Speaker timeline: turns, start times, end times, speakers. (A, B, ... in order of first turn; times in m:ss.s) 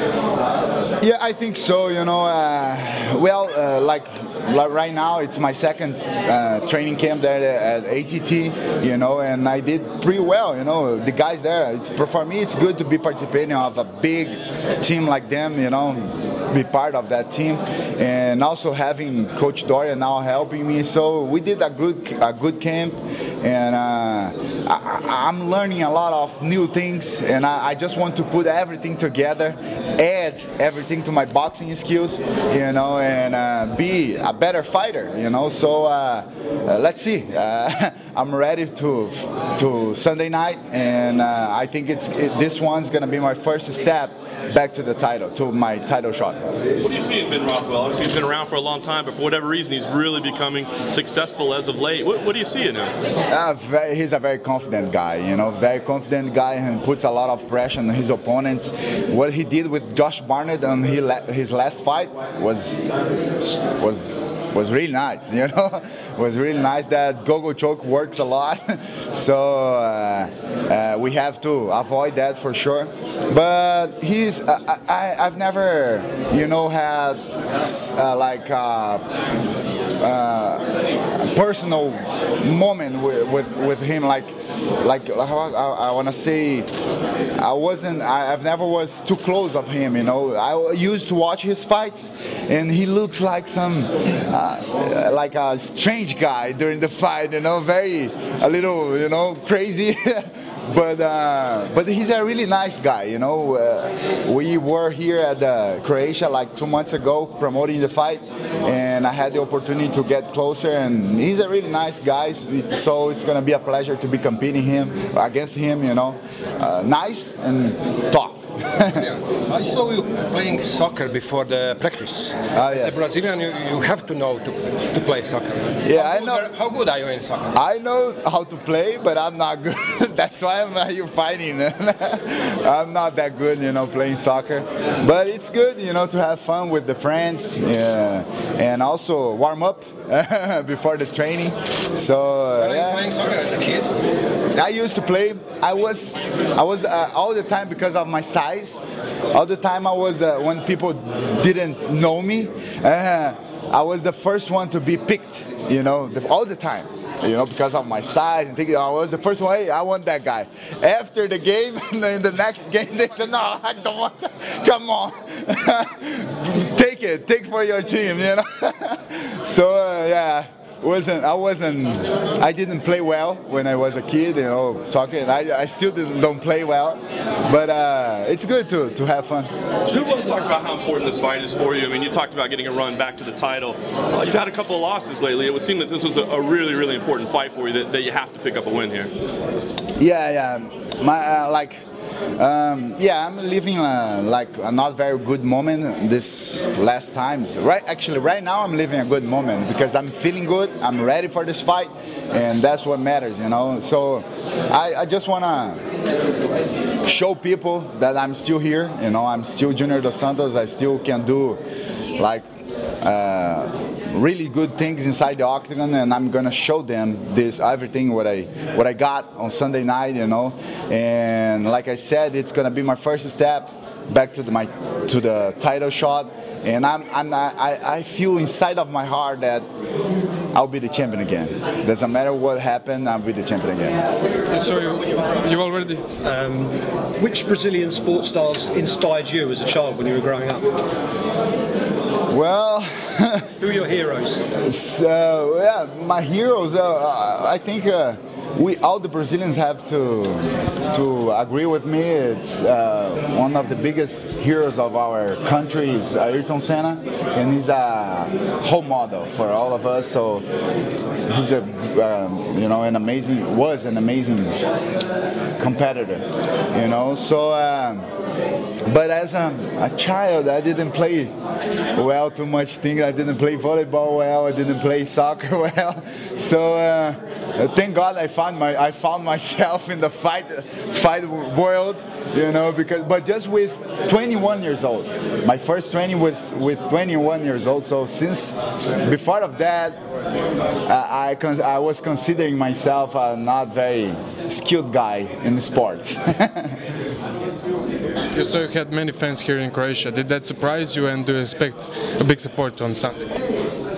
0:01.0-0:46.4 A
0:46.8-0:53.0 B
0:53.3-1:02.9 A
1:03.4-1:19.0 A
1:20.0-1:20.6 A
1:21.1-1:26.7 A
1:27.4-1:59.0 A
1:58.9-2:07.5 C
2:02.5-2:02.9 A
2:05.8-2:06.5 A
2:07.5-2:23.1 A
2:22.6-2:23.9 C
2:24.5-2:59.5 A
2:59.9-3:09.1 B
3:10.0-3:11.8 A
3:12.4-3:25.8 A
3:27.0-3:31.6 A
3:32.2-3:32.4 A
3:33.0-3:49.6 A
3:50.5-3:54.0 A
3:54.5-3:56.0 D
3:56.2-4:00.7 E
4:02.3-4:03.5 A
4:03.6-4:04.4 E
4:04.6-4:20.4 A
4:21.3-4:24.6 A
4:25.6-4:28.1 A
4:28.8-4:31.3 A
4:31.9-4:50.0 A
4:50.8-4:56.8 A
4:58.3-5:03.3 D